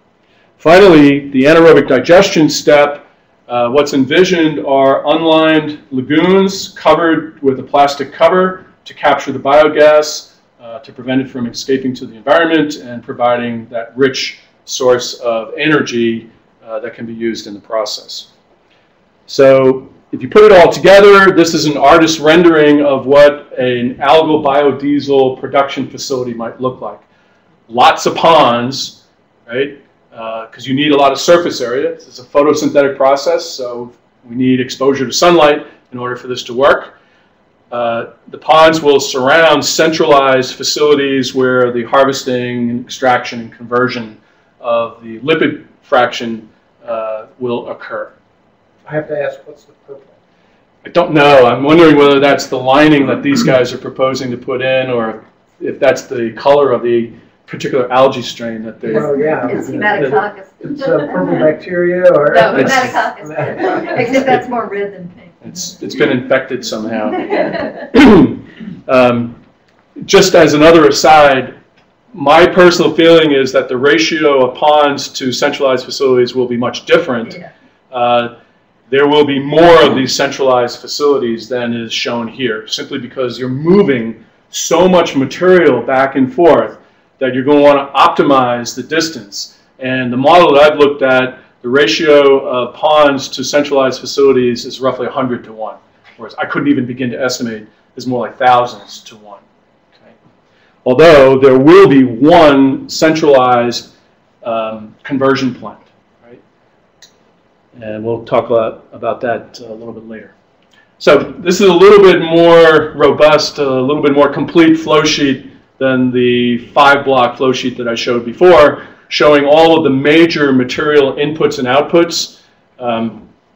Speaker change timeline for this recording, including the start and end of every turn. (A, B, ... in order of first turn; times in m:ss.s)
0:00.6-0:18.3 A
0:19.3-0:27.0 A
0:27.7-0:36.9 A
0:37.7-0:48.1 A
0:48.8-0:50.2 B
0:50.8-0:59.2 A
0:58.9-1:04.1 B
0:59.0-1:01.1 C
1:02.3-1:05.7 C
1:05.4-1:09.4 A
1:10.0-1:11.5 A
1:12.1-1:17.4 A
1:17.9-1:18.3 A
1:18.9-1:39.4 A
1:40.8-1:43.9 A
1:44.4-1:46.4 A
1:47.8-1:50.3 A
1:51.0-2:03.3 A